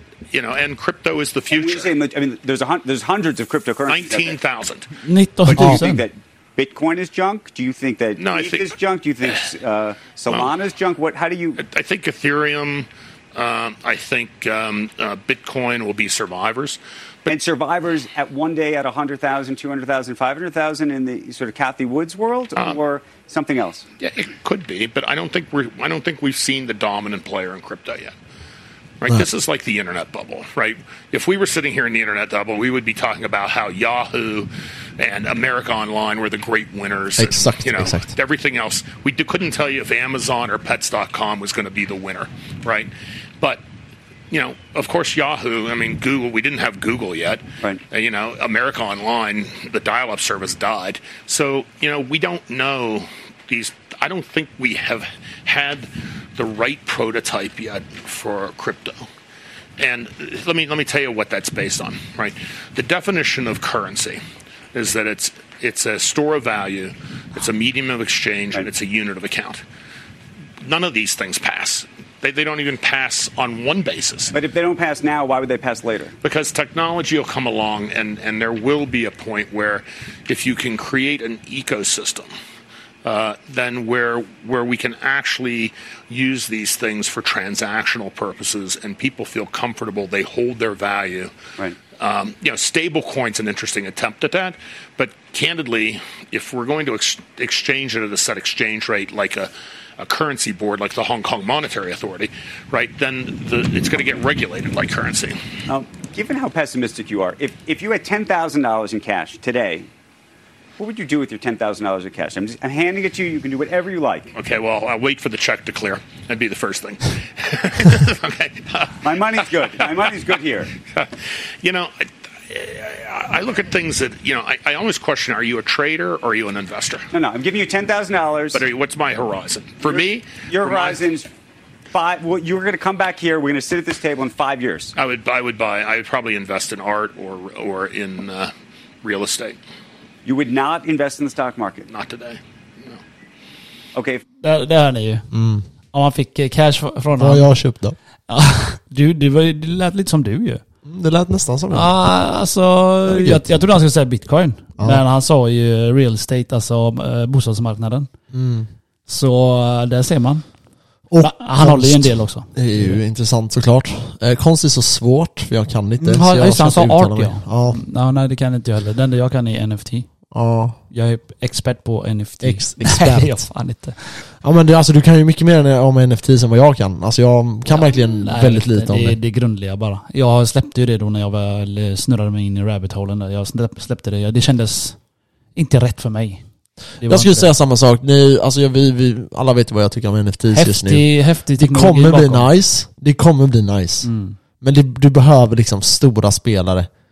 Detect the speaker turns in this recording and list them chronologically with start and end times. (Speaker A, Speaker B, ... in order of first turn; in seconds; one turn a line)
Speaker A: 0.3-1.9
Speaker B: 1.5-4.3
Speaker A: 3.9-4.9
Speaker C: 5.0-6.0
Speaker B: 5.5-11.6
Speaker D: 5.5-5.8
Speaker A: 8.2-8.7
Speaker A: 11.6-17.3
Speaker B: 17.3-23.9
Speaker A: 24.0-28.1
Speaker A: 29.0-43.6
Speaker D: 37.2-38.1
Speaker A: 44.3-59.0
Speaker A: 59.8-64.2
Speaker A: 64.7-69.6
Speaker A: 70.6-74.3
Speaker B: 74.3-76.1
Speaker A: 76.2-82.3
Speaker A: 83.0-91.3
Speaker A: 92.0-105.4
Speaker B: 105.7-109.9
Speaker B: 110.8-114.3
Speaker A: 114.3-120.0
Speaker B: 119.0-120.7
Speaker A: 120.9-127.1
Speaker B: 127.1-128.6
Speaker A: 128.5-131.0
Speaker B: 129.9-131.3
Speaker B: 131.9-134.9
Speaker A: 134.9-139.6
Speaker B: 140.2-141.9
Speaker A: 141.9-143.0
Speaker B: 143.9-144.2
Speaker C: 144.4-145.3
Speaker D: 145.3-145.7
Speaker C: 145.9-147.5
Speaker D: 147.2-147.9
Speaker C: 148.3-150.6
Speaker D: 150.8-151.9
Speaker C: 151.7-158.1
Speaker D: 153.1-153.5
Speaker D: 154.8-155.0
Speaker D: 158.3-158.7
Speaker C: 159.1-160.4
Speaker D: 161.1-167.8
Speaker C: 161.2-162.9
Speaker C: 166.0-170.1
Speaker D: 170.3-170.8
Speaker C: 170.9-174.0
Speaker D: 172.4-173.4
Speaker D: 174.4-179.2
Speaker C: 177.7-185.0
Speaker C: 185.5-186.4
Speaker C: 187.0-187.5
Speaker D: 187.1-194.1
Speaker C: 190.5-192.5
Speaker C: 194.0-194.4
Speaker D: 194.6-196.9